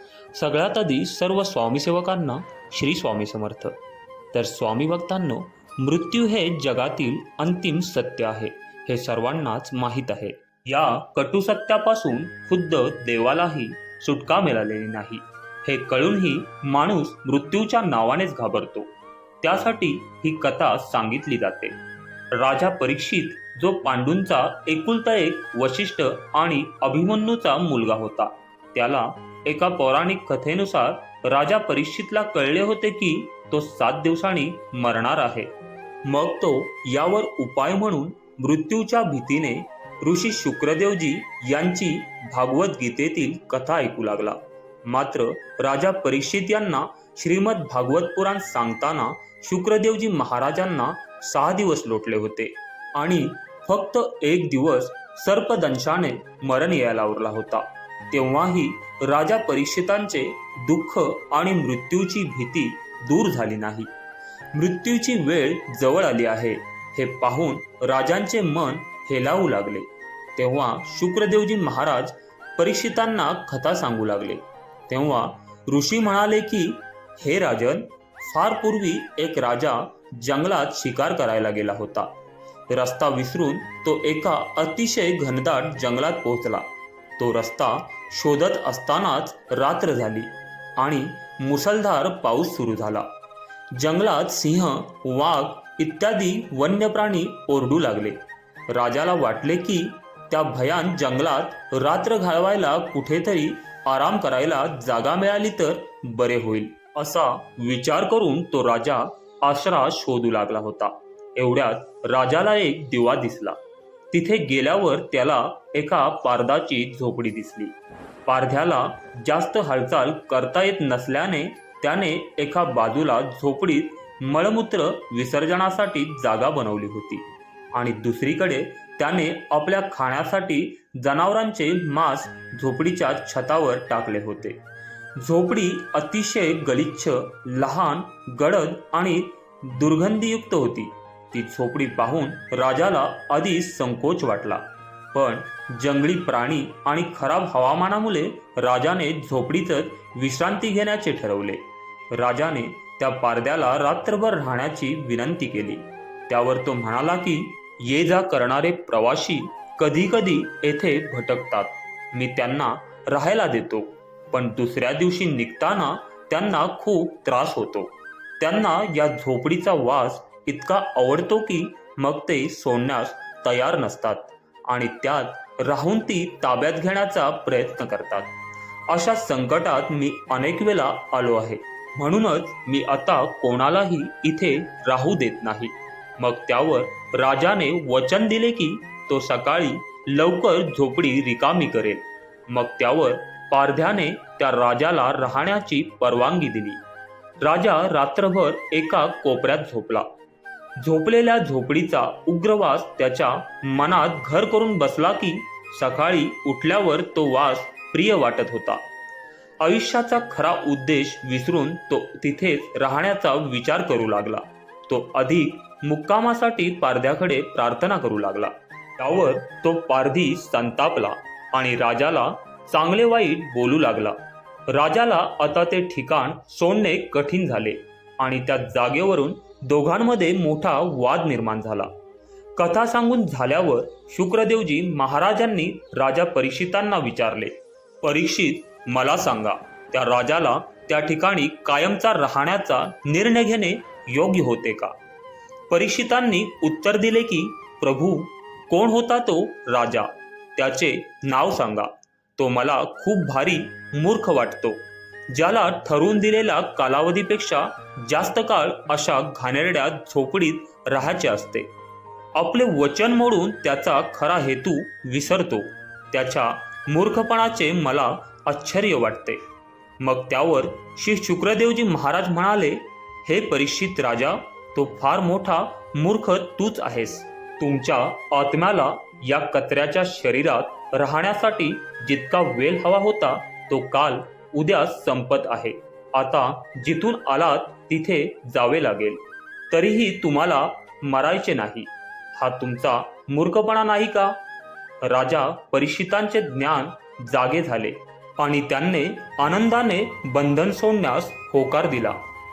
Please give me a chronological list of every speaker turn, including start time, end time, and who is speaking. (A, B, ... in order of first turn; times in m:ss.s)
0:00.3-0:03.8 A
0:04.3-0:21.8 A
0:22.3-0:35.5 A
0:36.0-1:03.9 A
1:04.5-1:22.1 A
1:22.7-1:33.1 A
1:33.7-1:53.6 A
1:54.1-1:57.8 A
1:58.3-2:14.6 A
2:15.2-2:58.4 A
2:58.9-3:16.8 A
3:17.4-3:20.1 A
3:20.8-3:28.8 A
3:29.6-3:51.9 A
3:52.6-4:05.0 A
4:05.7-4:21.7 A
4:22.4-4:29.4 A
4:30.0-4:54.4 A
4:55.0-5:02.2 A